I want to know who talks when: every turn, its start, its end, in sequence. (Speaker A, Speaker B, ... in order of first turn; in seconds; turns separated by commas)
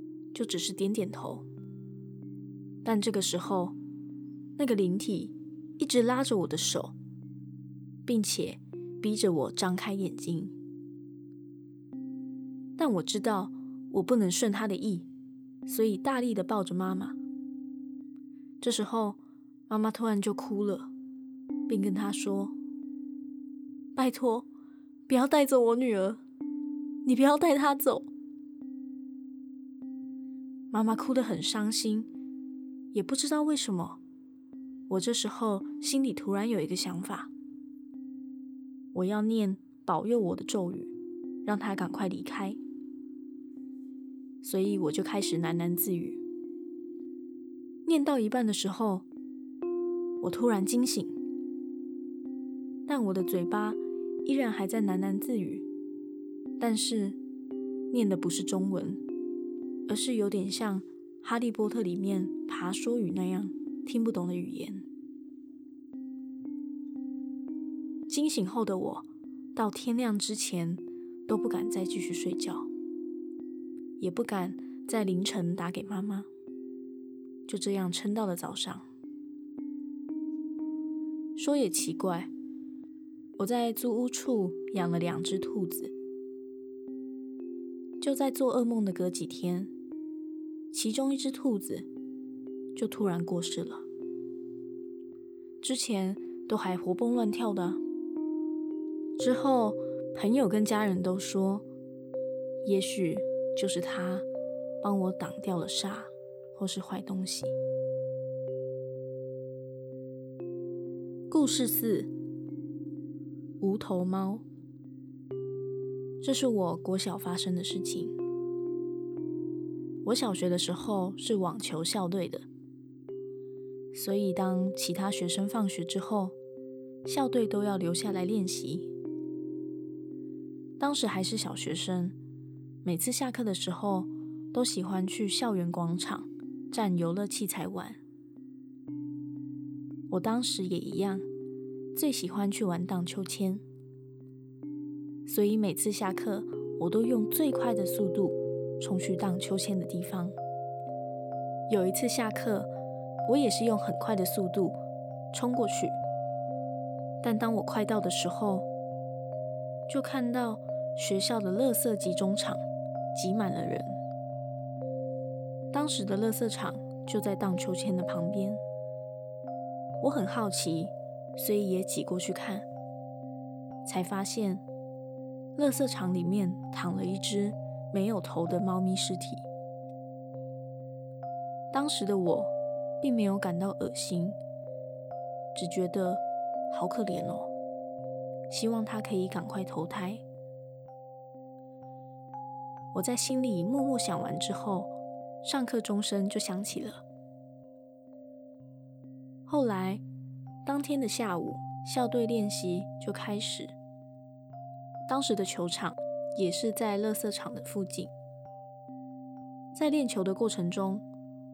Speaker A: 0.3-1.4, Speaker A: 2.8-3.8, Speaker A: 4.6-6.9, Speaker A: 8.1-10.5, Speaker A: 12.8-15.1, Speaker A: 15.6-17.2, Speaker A: 18.6-20.9, Speaker A: 21.7-22.6, Speaker A: 23.9-24.5, Speaker A: 25.1-26.2, Speaker A: 27.0-28.1, Speaker A: 30.7-32.1, Speaker A: 32.9-34.0, Speaker A: 34.9-37.3, Speaker A: 38.9-40.9, Speaker A: 41.4-42.6, Speaker A: 44.4-46.2, Speaker A: 47.9-49.0, Speaker A: 50.2-51.2, Speaker A: 52.9-55.6, Speaker A: 56.6-57.2, Speaker A: 57.9-59.0, Speaker A: 59.9-64.8, Speaker A: 68.1-72.7, Speaker A: 74.0-76.3, Speaker A: 77.5-78.8, Speaker A: 81.3-82.3, Speaker A: 83.4-85.9, Speaker A: 88.0-89.7, Speaker A: 90.7-91.9, Speaker A: 92.7-93.8, Speaker A: 95.6-97.8, Speaker A: 99.2-101.6, Speaker A: 102.6-104.2, Speaker A: 104.8-107.5, Speaker A: 111.3-112.1, Speaker A: 113.6-114.4, Speaker A: 116.2-118.2, Speaker A: 120.0-122.4, Speaker A: 123.9-126.3, Speaker A: 127.0-128.9, Speaker A: 130.8-132.2, Speaker A: 132.8-138.0, Speaker A: 140.1-141.2, Speaker A: 141.9-143.6, Speaker A: 145.2-150.3, Speaker A: 151.7-152.7, Speaker A: 153.2-154.8, Speaker A: 155.3-156.0, Speaker A: 157.2-158.7, Speaker A: 159.9-162.6, Speaker A: 163.1-164.0, Speaker A: 165.7-168.6, Speaker A: 170.0-172.7, Speaker A: 173.8-174.6, Speaker A: 175.6-179.4, Speaker A: 181.7-184.4, Speaker A: 185.5-187.5, Speaker A: 188.5-190.2, Speaker A: 192.9-197.0, Speaker A: 199.5-200.0, Speaker A: 200.6-203.7, Speaker A: 205.1-208.1, Speaker A: 209.7-211.0